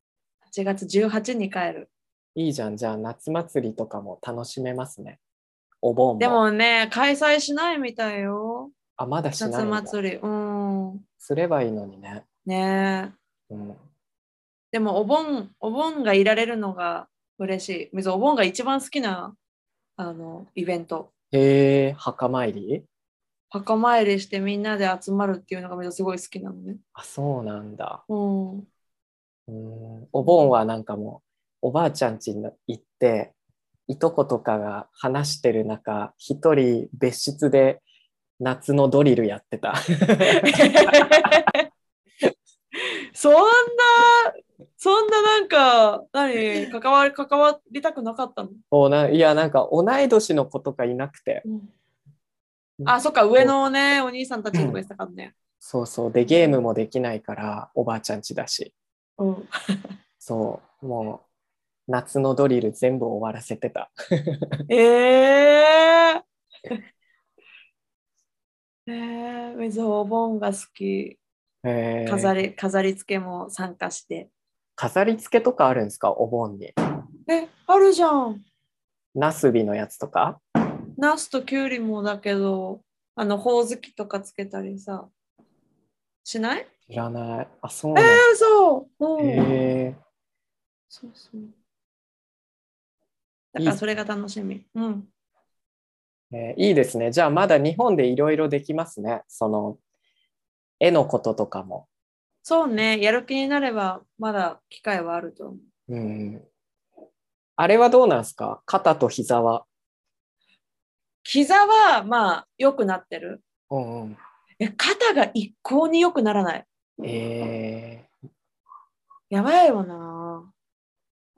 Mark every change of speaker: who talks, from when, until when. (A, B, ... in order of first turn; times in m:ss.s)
0:00.5-0:01.9 A
0:02.4-0:05.2 B
0:05.8-0:06.4 B
0:06.2-0:08.7 A
0:09.0-0:09.9 B
0:09.4-0:11.0 A
0:11.2-0:12.2 B
0:12.4-0:13.1 A
0:13.5-0:13.8 B
0:14.7-0:19.4 A
0:20.0-0:21.1 A
0:21.3-0:22.8 B
0:23.5-0:26.8 A
0:26.9-0:28.0 B
0:28.1-0:28.7 A
0:29.5-0:33.3 B
0:30.2-0:30.5 A
0:33.9-0:37.8 B
0:38.4-0:41.0 B
0:40.2-0:41.6 A
0:42.8-0:48.6 A
0:48.7-0:51.4 B
0:51.4-0:51.7 A
0:52.8-0:53.5 B
0:52.8-0:55.3 A
0:55.6-0:58.7 B
0:56.2-0:56.6 A
0:59.2-0:59.5 A
1:00.2-1:01.2 B
1:01.9-1:04.6 B
1:04.7-1:06.8 A
1:08.9-1:11.2 A
1:11.6-1:12.4 B
1:12.0-1:14.3 A
1:14.8-1:16.7 B
1:17.3-1:18.4 A
1:19.1-1:20.4 B
1:21.0-1:25.1 A
1:26.2-1:26.7 A
1:26.9-1:28.2 B
1:27.9-1:29.7 A
1:29.2-1:30.0 B
1:30.9-1:31.5 A
1:33.5-1:35.1 A
1:36.3-1:39.8 B
1:40.8-1:41.9 B
1:42.4-1:45.6 A
1:45.9-1:46.4 B
1:47.6-1:49.6 B
1:51.2-1:53.4 A
1:53.7-1:54.2 B
1:54.6-1:56.6 A
1:57.0-1:58.1 B
1:59.3-2:00.5 A